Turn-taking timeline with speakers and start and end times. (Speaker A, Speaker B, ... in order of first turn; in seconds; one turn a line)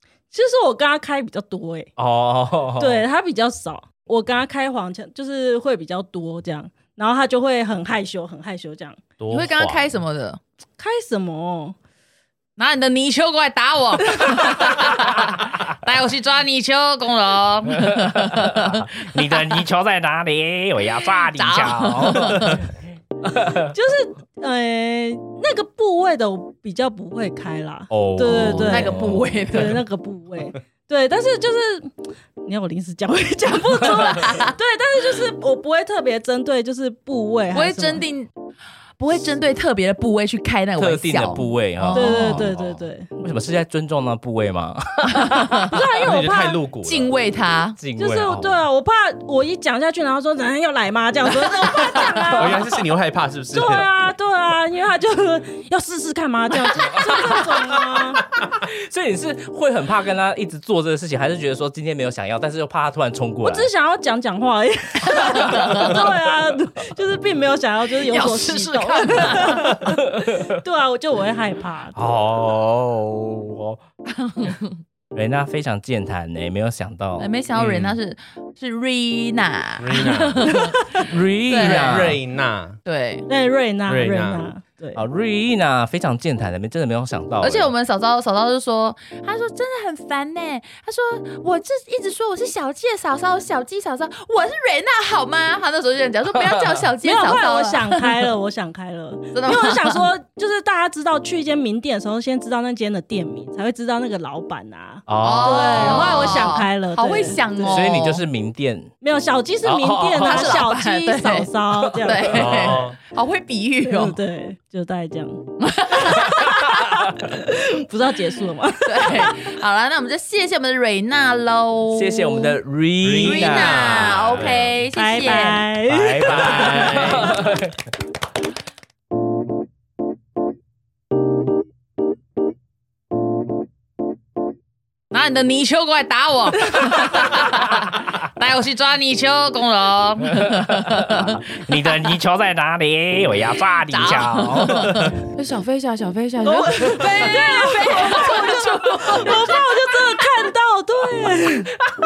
Speaker A: 0.3-1.9
Speaker B: 2.0-3.0
Speaker A: 2.8-9.0
Speaker C: 9.2-10.0
Speaker D: 9.3-10.4
Speaker A: 10.8-11.8
Speaker D: 12.6-19.6
Speaker B: 17.7-22.7
Speaker D: 21.1-22.6
Speaker B: 23.2-23.7
Speaker A: 23.6-38.0
Speaker B: 27.9-29.7
Speaker D: 28.3-29.8
Speaker D: 33.8-34.5
Speaker D: 37.5-38.3
Speaker D: 39.0-42.5
Speaker B: 40.8-45.7
Speaker A: 41.9-43.3
Speaker D: 45.1-45.7
Speaker A: 45.7-46.6
Speaker C: 46.0-47.1
Speaker D: 46.8-47.8
Speaker B: 47.8-48.6
Speaker A: 48.0-52.8
Speaker D: 51.6-52.4
Speaker C: 52.3-53.9
Speaker A: 53.5-58.2
Speaker B: 56.8-63.7
Speaker A: 63.4-71.9
Speaker D: 65.0-66.0
Speaker D: 68.1-69.9
Speaker B: 70.1-70.5
Speaker C: 71.9-73.8
Speaker D: 74.2-74.7
Speaker B: 75.1-77.9
Speaker D: 77.2-82.2
Speaker C: 79.8-80.7
Speaker B: 81.0-82.2
Speaker C: 81.6-82.8
Speaker D: 82.8-83.3
Speaker A: 83.3-85.0
Speaker C: 83.8-84.5
Speaker B: 84.9-87.7
Speaker D: 87.4-98.3
Speaker B: 96.3-96.8
Speaker A: 97.0-107.8
Speaker D: 99.3-100.0
Speaker B: 105.1-106.5
Speaker D: 105.1-108.2
Speaker B: 107.6-108.9
Speaker A: 109.0-112.7
Speaker B: 109.6-110.7
Speaker D: 110.2-114.2
Speaker C: 112.2-113.0
Speaker A: 113.8-115.4
Speaker D: 115.6-117.1
Speaker A: 117.2-119.5
Speaker D: 118.8-122.6
Speaker B: 121.9-124.8
Speaker C: 123.0-124.5
Speaker D: 123.2-125.7
Speaker A: 124.9-127.1
Speaker B: 125.9-127.8
Speaker C: 126.2-127.4
Speaker D: 135.1-141.9
Speaker B: 140.3-145.1
Speaker D: 143.8-150.5
Speaker A: 146.4-151.7